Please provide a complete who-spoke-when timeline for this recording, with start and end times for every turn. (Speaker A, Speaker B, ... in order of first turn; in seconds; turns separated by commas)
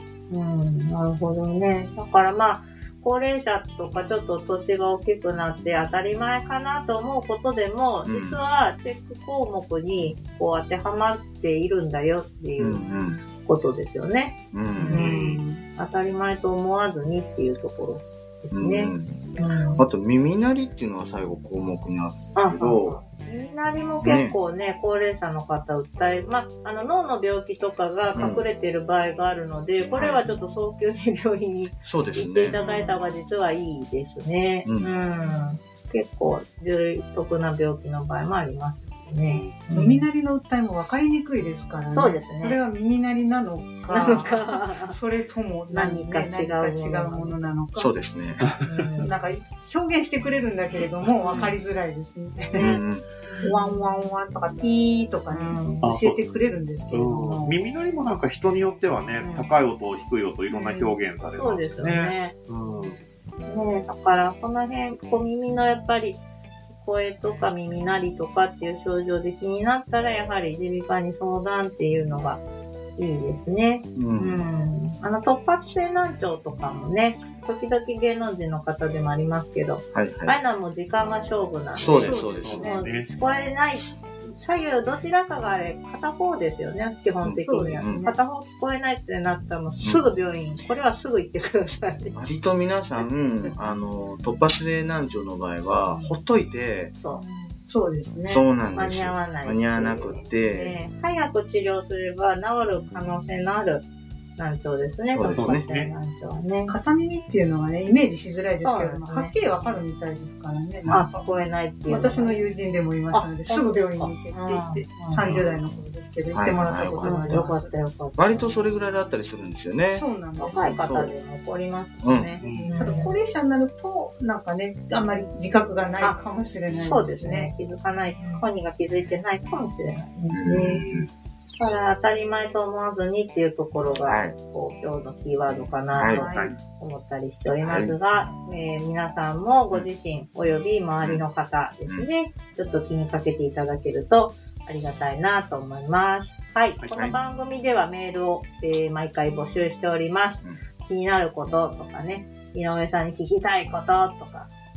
Speaker A: 0.3-12.8, Speaker B: 8.0-8.4, Speaker B: 12.6-13.2, Speaker A: 13.4-19.8, Speaker B: 14.5-15.1, Speaker C: 14.9-15.6, Speaker D: 14.9-15.4, Speaker B: 18.5-23.0, Speaker A: 22.3-40.0, Speaker B: 24.0-24.4, Speaker B: 28.1-28.4, Speaker B: 29.9-30.2, Speaker B: 31.8-32.6, Speaker C: 32.5-33.0, Speaker B: 34.6-34.9, Speaker D: 39.3-39.6, Speaker C: 39.7-48.0, Speaker A: 41.9-42.6, Speaker A: 43.9-45.0, Speaker A: 45.7-47.4, Speaker B: 47.8-48.5, Speaker A: 48.6-49.1, Speaker C: 49.0-52.7, Speaker A: 51.2-51.5, Speaker A: 52.5-52.8, Speaker B: 52.6-53.0, Speaker A: 53.3-53.9, Speaker C: 53.4-57.6, Speaker A: 55.3-55.8, Speaker D: 55.8-56.2, Speaker D: 56.9-63.0, Speaker A: 59.2-59.5, Speaker C: 60.5-61.0, Speaker A: 61.3-62.3, Speaker A: 63.5-72.4, Speaker A: 73.0-92.1, Speaker B: 74.0-74.4, Speaker B: 79.9-80.4, Speaker B: 81.7-82.8, Speaker C: 81.9-82.8, Speaker D: 82.4-83.1, Speaker B: 87.2-88.1, Speaker C: 87.4-88.1, Speaker B: 92.1-96.9, Speaker C: 95.7-96.2, Speaker A: 97.0-97.2, Speaker C: 97.1-98.4, Speaker B: 98.2-100.8, Speaker A: 98.7-103.8, Speaker A: 104.4-106.8, Speaker B: 105.0-105.6, Speaker D: 105.3-105.9, Speaker C: 106.7-111.2, Speaker A: 108.6-109.3, Speaker A: 110.9-112.4, Speaker C: 111.9-117.7, Speaker A: 113.1-115.3, Speaker D: 115.2-115.6, Speaker B: 116.3-117.5, Speaker A: 117.0-118.5, Speaker B: 118.2-121.1, Speaker C: 119.9-120.8, Speaker A: 120.4-123.1, Speaker B: 122.0-122.4, Speaker D: 122.4-122.9, Speaker C: 122.5-127.5, Speaker A: 126.7-131.0, Speaker B: 130.3-131.1, Speaker A: 131.6-154.5, Speaker B: 134.0-134.3, Speaker B: 135.9-136.3, Speaker D: 136.1-136.6, Speaker B: 137.6-137.9, Speaker D: 146.8-147.1